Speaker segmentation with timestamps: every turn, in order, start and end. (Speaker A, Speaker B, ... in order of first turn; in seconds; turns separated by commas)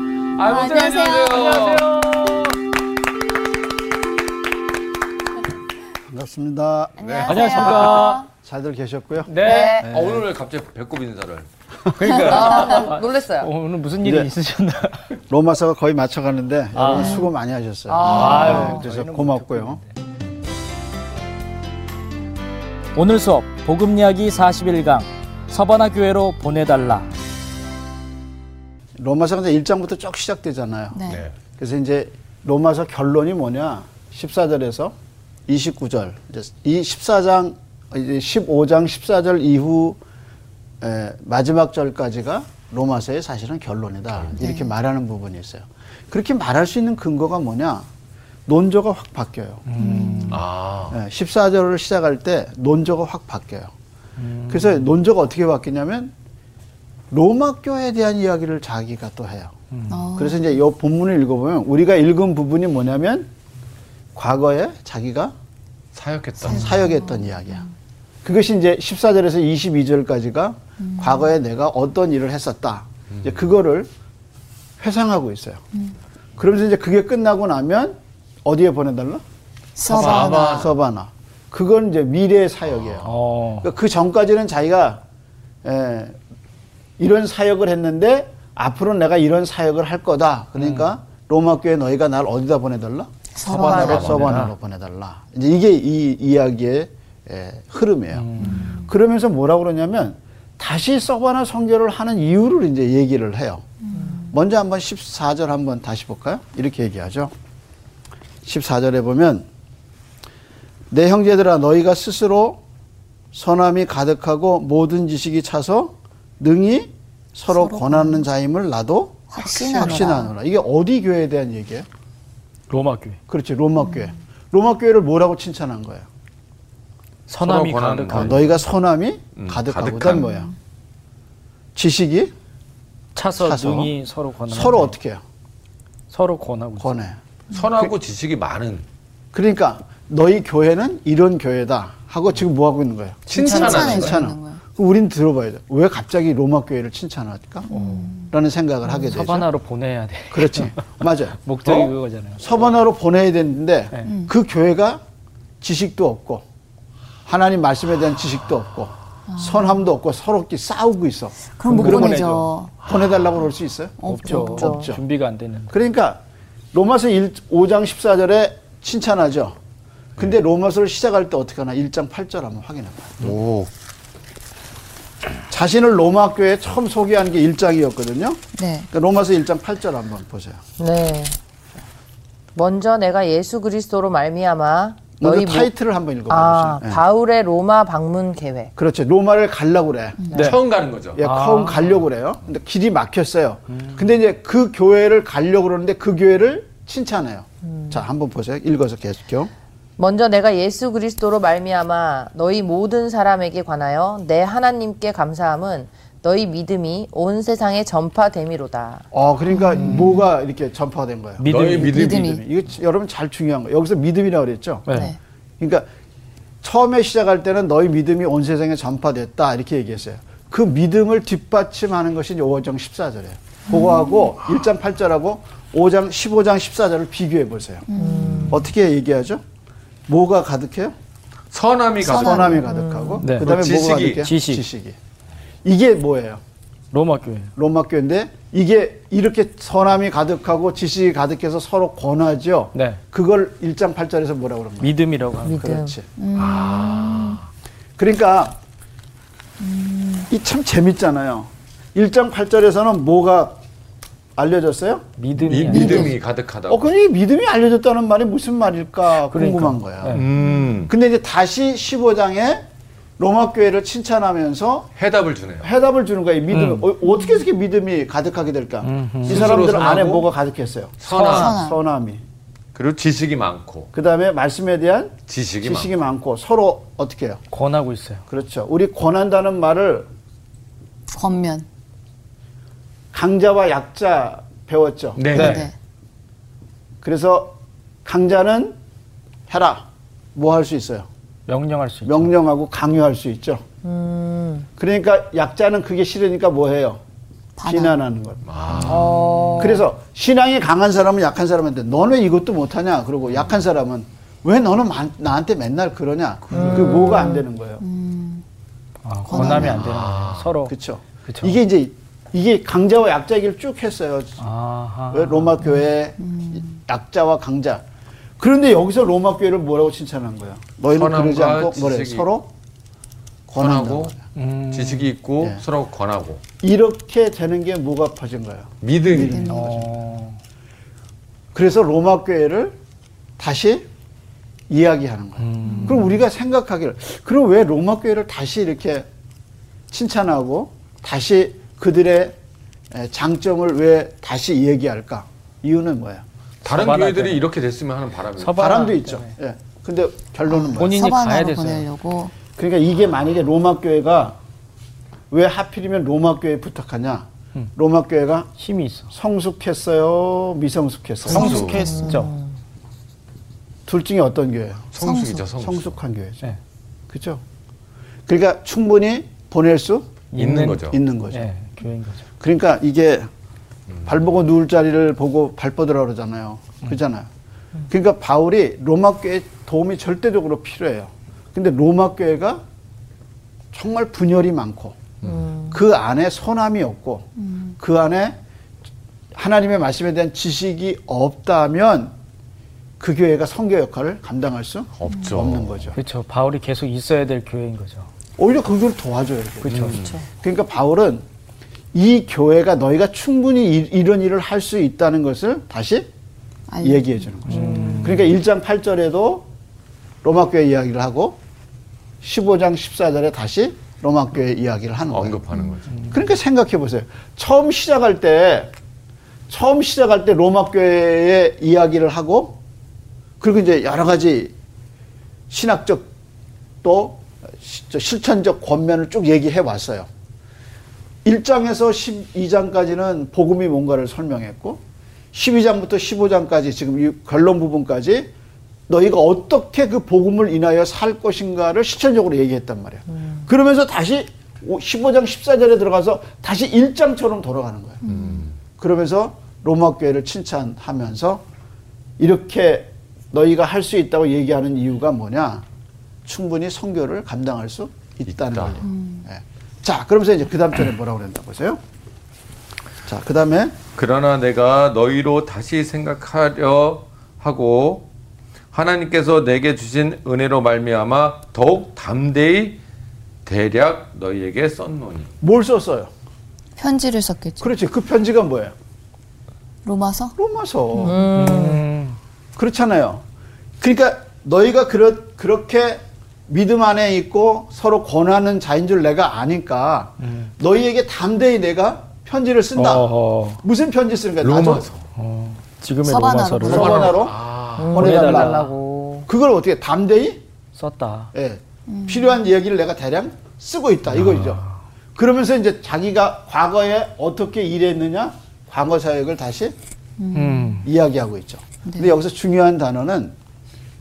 Speaker A: 0.4-1.9, Speaker B: 0.4-1.7, Speaker C: 1.6-2.5, Speaker D: 6.1-10.3, Speaker A: 7.0-7.8, Speaker B: 7.0-8.3, Speaker C: 7.3-8.2, Speaker C: 9.3-9.8, Speaker E: 9.4-9.9, Speaker A: 9.8-11.5, Speaker C: 12.0-15.0, Speaker A: 12.0-12.6, Speaker E: 12.0-13.5, Speaker D: 14.0-14.3, Speaker D: 15.3-19.8, Speaker C: 16.7-17.2, Speaker B: 16.9-17.3, Speaker E: 17.9-18.8, Speaker C: 18.0-20.0, Speaker C: 23.0-27.1, Speaker D: 29.0-31.0, Speaker B: 30.9-31.2, Speaker D: 31.6-35.0, Speaker D: 35.5-40.0, Speaker D: 40.8-47.9, Speaker B: 44.4-44.7, Speaker D: 48.5-49.6, Speaker C: 49.7-50.4, Speaker B: 49.8-50.4, Speaker A: 50.3-51.0, Speaker D: 50.9-53.7, Speaker C: 54.2-54.9, Speaker D: 54.5-56.1, Speaker D: 57.1-59.5, Speaker C: 59.7-60.0, Speaker B: 59.9-60.5, Speaker D: 60.2-63.3, Speaker D: 64.2-65.3, Speaker A: 66.0-66.9, Speaker B: 66.4-67.6, Speaker D: 66.4-67.7, Speaker D: 68.2-73.9, Speaker B: 70.8-71.3, Speaker A: 73.1-73.4, Speaker D: 74.8-75.6, Speaker D: 76.4-79.2, Speaker B: 79.8-80.7, Speaker A: 79.9-80.7, Speaker D: 79.9-85.0, Speaker C: 83.0-83.7, Speaker D: 85.6-86.2, Speaker D: 87.0-103.6, Speaker C: 90.6-90.9, Speaker B: 93.4-94.1, Speaker E: 93.5-94.1, Speaker A: 93.8-94.3, Speaker C: 93.9-94.5, Speaker C: 98.1-98.7, Speaker B: 98.4-98.8, Speaker B: 103.9-104.3, Speaker D: 104.3-107.3, Speaker D: 108.5-109.5, Speaker D: 110.9-112.6, Speaker D: 113.3-121.9, Speaker B: 117.5-118.2, Speaker B: 119.3-120.3, Speaker C: 122.7-123.2, Speaker D: 123.3-126.1, Speaker C: 127.3-128.5, Speaker A: 127.4-128.4, Speaker D: 128.1-130.5, Speaker A: 129.4-130.3, Speaker B: 130.2-130.5, Speaker D: 131.8-132.3, Speaker C: 133.2-134.9, Speaker D: 133.4-133.9, Speaker D: 134.5-135.2, Speaker C: 136.1-136.9, Speaker D: 136.8-137.2, Speaker A: 137.5-138.8, Speaker D: 139.3-147.7, Speaker A: 143.3-144.2, Speaker B: 143.3-144.6, Speaker B: 147.7-148.3, Speaker C: 147.7-148.1, Speaker D: 148.3-149.5, Speaker C: 149.1-150.9, Speaker D: 150.3-155.0, Speaker C: 151.4-152.5, Speaker B: 154.1-154.3, Speaker D: 155.6-156.4, Speaker D: 157.3-162.3, Speaker B: 159.3-159.8, Speaker B: 161.6-162.7, Speaker C: 161.7-162.5, Speaker D: 162.8-165.0, Speaker B: 164.0-164.7, Speaker C: 164.1-165.8, Speaker E: 164.6-164.9, Speaker D: 165.7-166.2, Speaker D: 166.7-169.6, Speaker D: 170.2-173.4, Speaker A: 173.2-173.7, Speaker D: 175.5-180.6, Speaker B: 178.6-178.9, Speaker E: 180.8-181.4, Speaker E: 182.6-185.7, Speaker D: 185.2-187.0, Speaker E: 186.3-188.7, Speaker D: 188.8-190.2, Speaker B: 190.2-190.5, Speaker C: 190.3-190.6, Speaker A: 190.3-191.2, Speaker D: 191.2-199.5, Speaker C: 191.2-192.1, Speaker C: 193.7-194.0, Speaker E: 197.7-198.0, Speaker E: 200.0-209.1, Speaker D: 209.1-211.5, Speaker B: 209.5-210.3, Speaker C: 211.4-212.1, Speaker A: 211.4-212.4, Speaker B: 211.8-212.4, Speaker D: 212.1-215.0, Speaker C: 214.9-215.1, Speaker B: 214.9-215.2, Speaker D: 215.6-215.9, Speaker D: 216.6-227.9, Speaker B: 223.7-224.3, Speaker B: 227.9-228.6, Speaker E: 228.0-228.6, Speaker D: 228.5-229.4, Speaker D: 230.1-230.9, Speaker A: 231.5-232.5, Speaker B: 232.0-232.7, Speaker D: 232.0-235.0, Speaker E: 232.6-233.2, Speaker C: 233.2-233.6, Speaker A: 233.4-234.3, Speaker C: 234.2-234.6, Speaker D: 235.7-236.4, Speaker C: 236.9-237.5, Speaker D: 237.6-244.9, Speaker C: 242.7-243.0, Speaker C: 244.8-245.8, Speaker E: 245.5-245.9, Speaker D: 245.6-246.0, Speaker B: 246.2-247.4, Speaker A: 246.3-247.5, Speaker D: 248.0-248.6, Speaker B: 249.6-250.3, Speaker D: 250.3-253.6, Speaker D: 254.4-255.1, Speaker C: 255.2-256.1, Speaker A: 255.5-256.9, Speaker D: 255.7-256.2, Speaker D: 256.7-260.3, Speaker C: 259.2-260.3, Speaker A: 260.1-260.9, Speaker B: 260.4-260.7, Speaker D: 260.9-262.7, Speaker D: 263.2-264.9, Speaker A: 265.0-265.7, Speaker D: 265.6-272.2, Speaker C: 266.5-266.9, Speaker B: 267.1-267.4, Speaker C: 268.8-269.6, Speaker A: 269.3-270.3, Speaker A: 271.0-271.6, Speaker B: 271.1-271.8, Speaker A: 272.8-273.9, Speaker D: 273.9-277.4, Speaker A: 275.3-275.9, Speaker C: 277.5-278.2, Speaker D: 278.3-280.1, Speaker B: 281.1-281.7, Speaker D: 283.1-285.6, Speaker A: 285.1-285.7, Speaker C: 285.3-285.6, Speaker B: 285.3-285.7, Speaker D: 287.0-288.8, Speaker D: 289.5-291.1, Speaker C: 291.5-292.3, Speaker D: 292.1-293.6, Speaker E: 293.8-294.7, Speaker D: 294.8-297.0, Speaker B: 297.6-298.0, Speaker D: 297.6-299.0, Speaker A: 298.5-299.2, Speaker E: 298.8-299.8, Speaker D: 299.6-307.8, Speaker E: 306.5-307.4, Speaker B: 307.0-308.4, Speaker C: 309.0-310.8, Speaker B: 309.3-309.8, Speaker D: 309.3-310.0, Speaker A: 309.8-310.5, Speaker D: 310.7-314.4, Speaker C: 311.3-311.6, Speaker C: 314.4-315.6, Speaker D: 315.1-317.8, Speaker B: 315.6-316.7, Speaker D: 318.4-322.5, Speaker A: 320.9-322.3, Speaker D: 323.5-324.2, Speaker A: 323.6-324.1, Speaker C: 324.4-325.1, Speaker A: 324.7-326.4, Speaker D: 326.6-330.1, Speaker A: 328.8-329.5, Speaker B: 329.2-329.6, Speaker C: 329.5-330.4, Speaker D: 331.5-332.8, Speaker D: 333.4-333.9, Speaker D: 334.7-339.1, Speaker C: 335.4-336.2, Speaker B: 335.7-336.0, Speaker D: 339.9-342.4, Speaker D: 342.9-346.2, Speaker A: 346.6-348.6, Speaker C: 346.7-347.4, Speaker C: 348.4-349.4, Speaker D: 348.6-351.2, Speaker B: 350.5-352.3, Speaker C: 350.8-351.9, Speaker D: 352.5-354.4, Speaker D: 355.3-358.5, Speaker C: 358.6-359.1, Speaker D: 359.1-361.7, Speaker A: 361.3-361.8, Speaker C: 361.3-362.3, Speaker B: 361.3-362.2, Speaker E: 361.7-362.5, Speaker D: 363.9-365.0, Speaker A: 364.9-366.0, Speaker B: 365.0-365.4, Speaker D: 365.6-366.5, Speaker D: 367.1-367.4, Speaker D: 368.3-370.1, Speaker C: 370.3-372.2, Speaker A: 370.4-371.0, Speaker D: 370.8-371.5, Speaker D: 372.4-373.3, Speaker D: 374.1-377.3, Speaker D: 377.9-382.6, Speaker D: 383.7-385.0, Speaker E: 385.3-385.7, Speaker D: 385.7-388.4, Speaker B: 387.4-387.7, Speaker D: 389.4-392.1, Speaker D: 393.0-396.0, Speaker A: 395.0-395.9, Speaker B: 395.1-395.3, Speaker C: 395.9-398.1, Speaker D: 398.4-401.2, Speaker C: 399.6-400.0, Speaker A: 399.8-400.2, Speaker D: 401.9-406.1, Speaker B: 406.7-407.2, Speaker D: 406.8-409.5, Speaker C: 407.5-408.4, Speaker E: 407.7-408.1, Speaker D: 410.2-411.4, Speaker D: 412.2-415.4, Speaker A: 415.1-415.9, Speaker C: 415.9-416.2, Speaker D: 416.1-418.7, Speaker D: 419.5-422.6, Speaker D: 423.4-424.5, Speaker D: 425.5-426.1, Speaker D: 426.8-430.1, Speaker D: 431.2-434.8, Speaker D: 435.3-438.3, Speaker D: 438.9-448.0, Speaker A: 448.1-448.6, Speaker D: 448.8-451.4, Speaker D: 452.2-455.6, Speaker D: 456.2-461.8, Speaker A: 458.4-458.8, Speaker B: 458.9-459.3, Speaker D: 463.1-463.8, Speaker A: 463.9-468.1, Speaker A: 468.7-472.8, Speaker A: 473.5-475.3, Speaker D: 475.4-476.1, Speaker B: 476.8-477.7, Speaker D: 477.6-478.7, Speaker B: 479.9-480.4, Speaker D: 480.4-481.2, Speaker E: 481.0-481.9, Speaker C: 481.3-482.2, Speaker D: 482.6-483.2, Speaker D: 483.8-493.1, Speaker C: 490.2-490.5, Speaker C: 492.8-493.6, Speaker D: 493.6-494.9, Speaker A: 494.4-495.1, Speaker C: 495.2-497.0, Speaker B: 496.1-497.2, Speaker A: 496.6-498.0, Speaker D: 496.6-498.7, Speaker E: 497.8-499.3, Speaker C: 498.0-498.7, Speaker D: 499.3-500.4, Speaker C: 500.8-501.3, Speaker D: 501.3-504.6, Speaker B: 501.9-502.4, Speaker C: 504.1-504.8, Speaker D: 505.2-509.8, Speaker B: 510.2-510.8, Speaker C: 510.3-510.9, Speaker D: 510.8-513.4, Speaker B: 511.9-512.1